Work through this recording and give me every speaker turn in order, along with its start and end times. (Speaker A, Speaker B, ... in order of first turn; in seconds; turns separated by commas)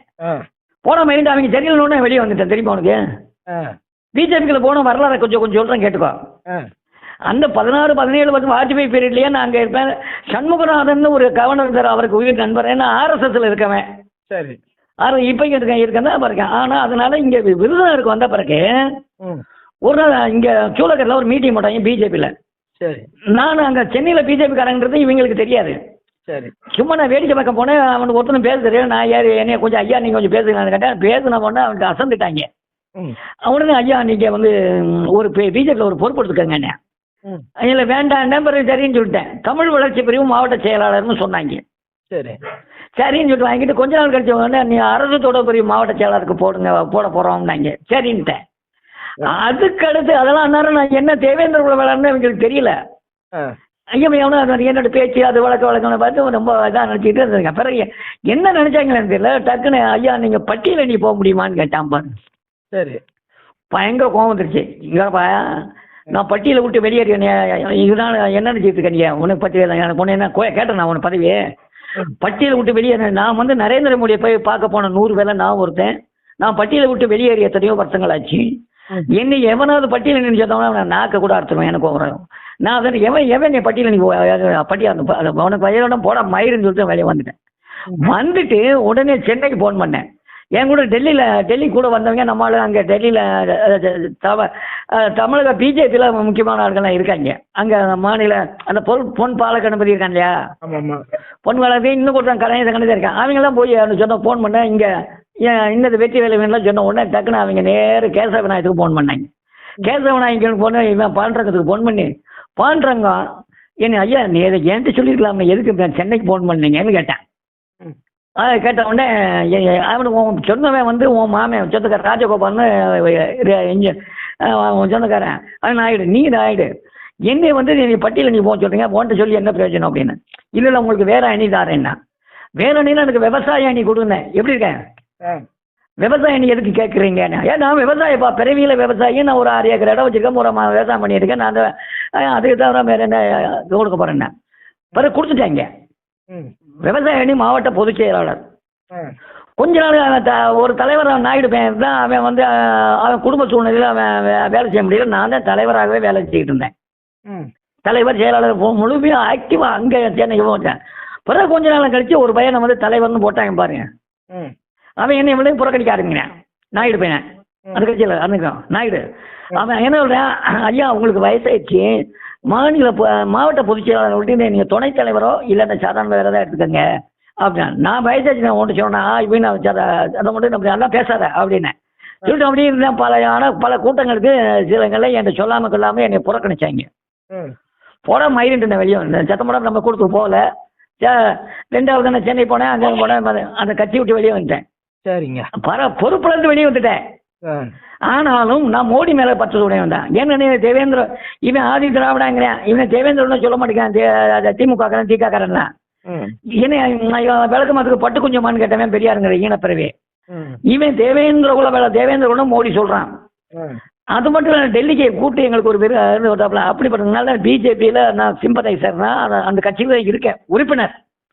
Speaker A: 0.9-3.0, Speaker B: 3.5-3.8, Speaker A: 4.2-6.2, Speaker A: 7.3-13.8, Speaker B: 14.3-14.6, Speaker A: 15.0-18.6, Speaker A: 19.9-22.3, Speaker B: 22.8-23.1, Speaker A: 23.4-25.8, Speaker B: 26.3-26.5, Speaker A: 26.7-32.5, Speaker A: 33.5-36.8, Speaker A: 37.6-41.6, Speaker B: 42.1-42.4, Speaker A: 43.0-48.4, Speaker A: 49.2-52.7, Speaker A: 54.0-62.1, Speaker B: 62.7-63.0, Speaker A: 63.7-71.4, Speaker A: 72.2-78.5, Speaker A: 79.2-87.3, Speaker A: 88.0-90.0, Speaker A: 90.6-100.3, Speaker B: 100.6-101.0, Speaker A: 101.5-104.9, Speaker A: 105.4-109.3, Speaker A: 109.8-112.1, Speaker A: 112.6-113.2, Speaker A: 113.8-117.2, Speaker A: 118.4-126.7, Speaker A: 127.3-131.9, Speaker A: 132.6-134.8, Speaker A: 136.0-144.3, Speaker A: 145.0-145.7, Speaker A: 146.8-148.4, Speaker A: 149.6-156.7, Speaker A: 157.8-160.8, Speaker A: 161.3-163.8, Speaker A: 165.0-167.2, Speaker A: 167.7-169.0, Speaker A: 169.6-171.9, Speaker A: 172.5-176.8, Speaker A: 177.4-181.7, Speaker A: 182.2-186.9, Speaker A: 188.1-190.4, Speaker A: 191.0-194.6, Speaker B: 195.1-195.5, Speaker A: 195.6-197.0, Speaker B: 197.5-197.7, Speaker A: 198.1-205.7, Speaker B: 206.1-206.3, Speaker A: 206.6-209.9, Speaker B: 210.3-210.6, Speaker A: 210.7-213.1, Speaker B: 213.6-213.8, Speaker A: 214.2-220.9